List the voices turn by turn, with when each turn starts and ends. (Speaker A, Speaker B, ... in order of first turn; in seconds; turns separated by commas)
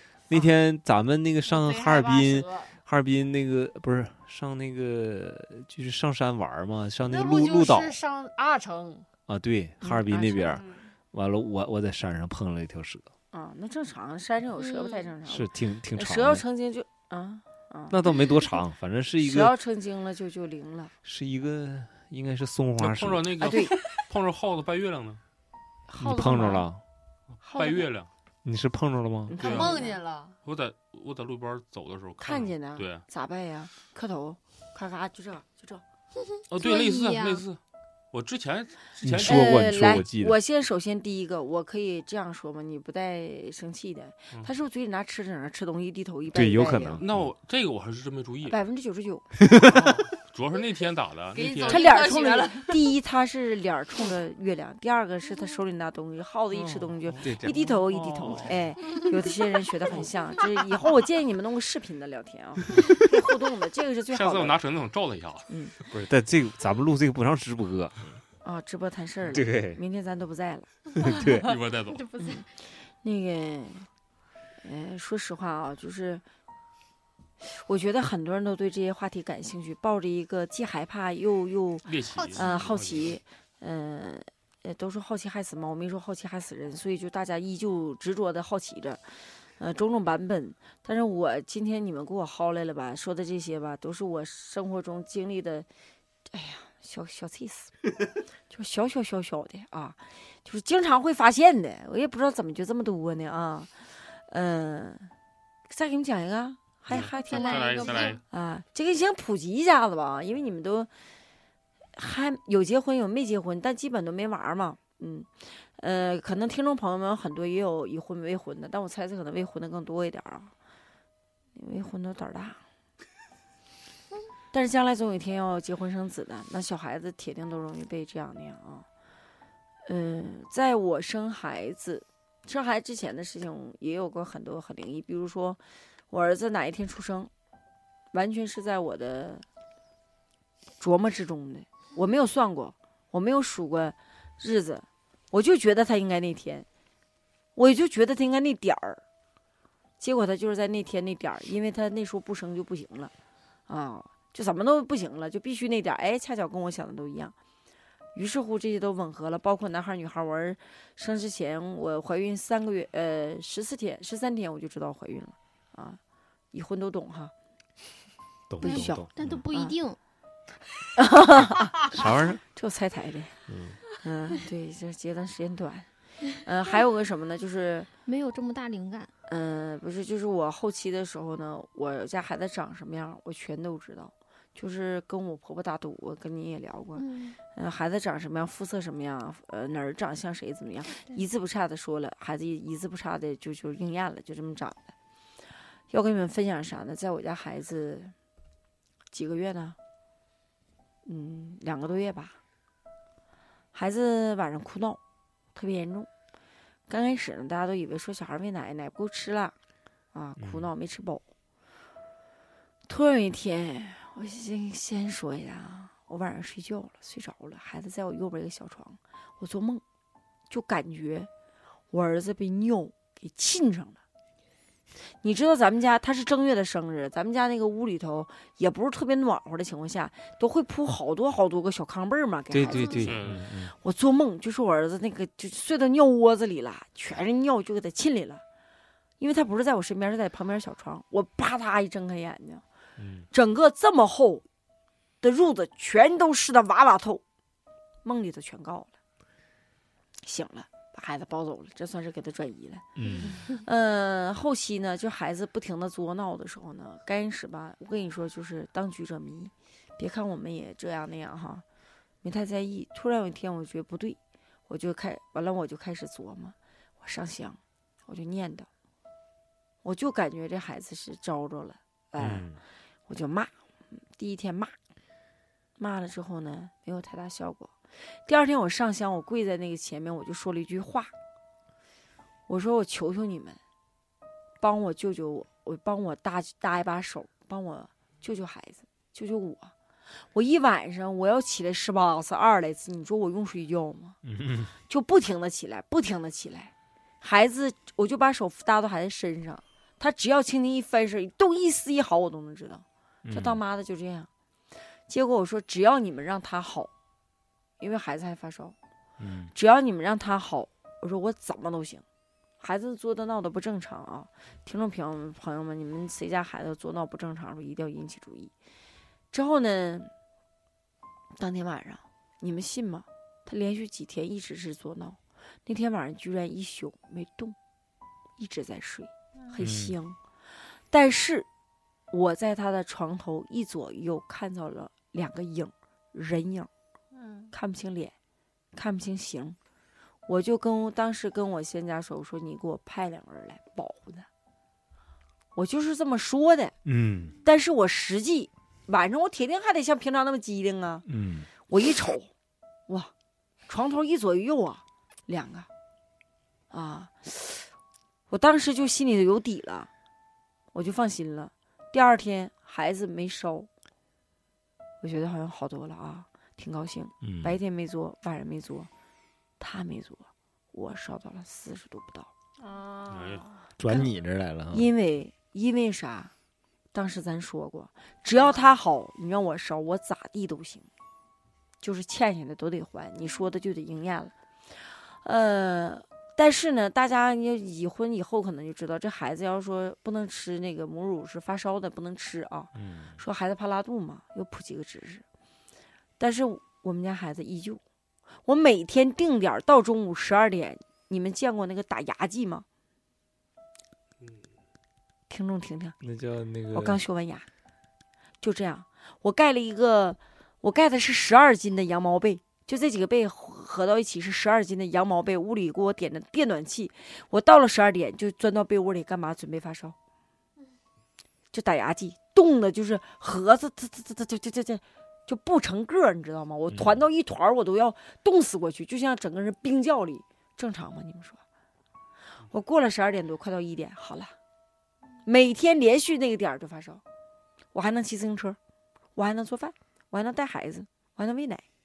Speaker A: 0.3-8.0, Speaker B: 1.4-2.8, Speaker B: 7.0-9.1, Speaker A: 9.3-13.1, Speaker C: 9.8-10.1, Speaker B: 10.1-10.9, Speaker C: 13.3-18.0, Speaker D: 14.6-15.0, Speaker A: 15.3-16.4, Speaker A: 17.9-19.5, Speaker C: 19.2-20.9, Speaker A: 21.0-23.3, Speaker E: 22.8-25.2, Speaker C: 23.4-23.8, Speaker C: 25.9-26.7, Speaker A: 26.0-26.8, Speaker C: 27.4-27.9, Speaker E: 27.5-28.1, Speaker A: 28.4-29.4, Speaker C: 29.3-30.0, Speaker E: 29.4-29.8, Speaker B: 29.4-30.4, Speaker E: 30.4-33.0, Speaker C: 32.2-35.8, Speaker D: 36.3-37.5, Speaker E: 36.5-37.6, Speaker E: 38.1-39.6, Speaker A: 39.0-40.4, Speaker C: 39.2-47.0, Speaker A: 46.3-47.3, Speaker E: 47.0-48.6, Speaker C: 48.5-49.4, Speaker A: 49.4-49.9, Speaker E: 49.6-52.2, Speaker B: 51.3-52.8, Speaker C: 51.6-64.6, Speaker A: 57.2-58.5, Speaker E: 57.9-58.6, Speaker E: 62.7-63.0, Speaker E: 64.1-66.0, Speaker C: 65.5-65.8, Speaker A: 65.9-68.2, Speaker C: 68.4-70.9, Speaker A: 69.3-69.8, Speaker A: 71.0-71.5, Speaker B: 71.0-72.4, Speaker E: 71.1-72.1, Speaker C: 72.2-73.9, Speaker C: 74.6-76.2, Speaker C: 77.4-95.7, Speaker E: 81.8-83.2, Speaker D: 82.2-82.5, Speaker C: 96.3-97.8, Speaker C: 98.5-105.1, Speaker C: 105.7-110.9, Speaker E: 106.9-108.2, Speaker D: 107.0-108.2, Speaker B: 107.4-107.8, Speaker C: 112.0-120.5, Speaker C: 121.5-122.6, Speaker C: 124.5-128.9, Speaker C: 129.8-137.3, Speaker C: 138.1-139.5, Speaker C: 140.8-146.7, Speaker C: 147.6-149.0, Speaker C: 150.0-153.1, Speaker C: 153.7-157.3, Speaker C: 158.1-166.0, Speaker C: 166.5-167.3, Speaker A: 168.5-169.4, Speaker C: 168.6-169.8, Speaker D: 168.6-170.0, Speaker C: 171.0-173.4, Speaker A: 171.9-172.4, Speaker A: 173.5-173.8, Speaker C: 173.9-177.9, Speaker D: 178.1-179.1, Speaker C: 179.3-194.9, Speaker D: 187.0-187.4, Speaker D: 191.0-191.2, Speaker C: 195.9-198.2, Speaker C: 199.1-199.8, Speaker C: 201.1-202.4, Speaker C: 203.7-205.0, Speaker C: 205.6-206.1, Speaker C: 206.9-209.6, Speaker C: 210.1-211.3, Speaker A: 210.4-210.7, Speaker C: 212.9-219.8, Speaker C: 220.5-221.3, Speaker C: 221.9-224.0, Speaker C: 225.2-238.4, Speaker A: 232.5-233.8, Speaker E: 233.0-233.4, Speaker C: 239.2-242.6, Speaker A: 243.0-243.3, Speaker C: 243.3-244.4, Speaker C: 245.2-247.2, Speaker C: 248.0-248.9, Speaker C: 250.2-261.6, Speaker A: 253.0-253.4, Speaker C: 262.2-268.7, Speaker C: 269.8-274.8, Speaker A: 272.2-272.6, Speaker C: 275.8-281.1, Speaker C: 282.5-283.6, Speaker C: 284.6-289.7, Speaker C: 290.3-294.2, Speaker A: 294.2-294.7, Speaker C: 294.9-304.3, Speaker A: 303.2-303.6, Speaker C: 305.1-306.9, Speaker C: 307.8-308.8, Speaker A: 309.2-309.5, Speaker C: 309.5-312.0, Speaker C: 312.6-318.5, Speaker C: 319.3-320.1, Speaker C: 321.4-327.6, Speaker C: 328.4-330.2, Speaker A: 329.6-329.9, Speaker C: 330.9-331.5, Speaker C: 332.1-336.7, Speaker B: 337.1-337.5, Speaker C: 337.5-338.1, Speaker C: 338.7-339.6, Speaker C: 340.3-344.3, Speaker C: 345.5-346.8, Speaker A: 346.9-347.4, Speaker C: 347.4-351.1, Speaker A: 351.1-351.5, Speaker C: 351.7-352.3, Speaker C: 353.7-355.7, Speaker C: 356.7-357.7, Speaker C: 358.3-359.9, Speaker C: 360.7-363.7, Speaker C: 365.0-368.9, Speaker A: 367.2-367.6, Speaker C: 369.6-372.3, Speaker B: 372.6-373.6, Speaker E: 373.1-373.5, Speaker A: 373.8-374.9, Speaker C: 374.7-376.3, Speaker C: 376.9-380.9, Speaker B: 378.3-378.8, Speaker C: 381.8-395.2, Speaker A: 392.8-393.2, Speaker C: 396.2-397.8, Speaker C: 398.4-402.7, Speaker E: 404.2-404.4, Speaker C: 405.3-406.0, Speaker A: 406.0-407.0, Speaker C: 406.7-407.5, Speaker C: 408.4-420.0, Speaker C: 421.5-431.4, Speaker A: 426.7-427.0, Speaker C: 432.5-434.3, Speaker C: 435.2-437.0, Speaker C: 437.7-438.6, Speaker C: 439.2-441.6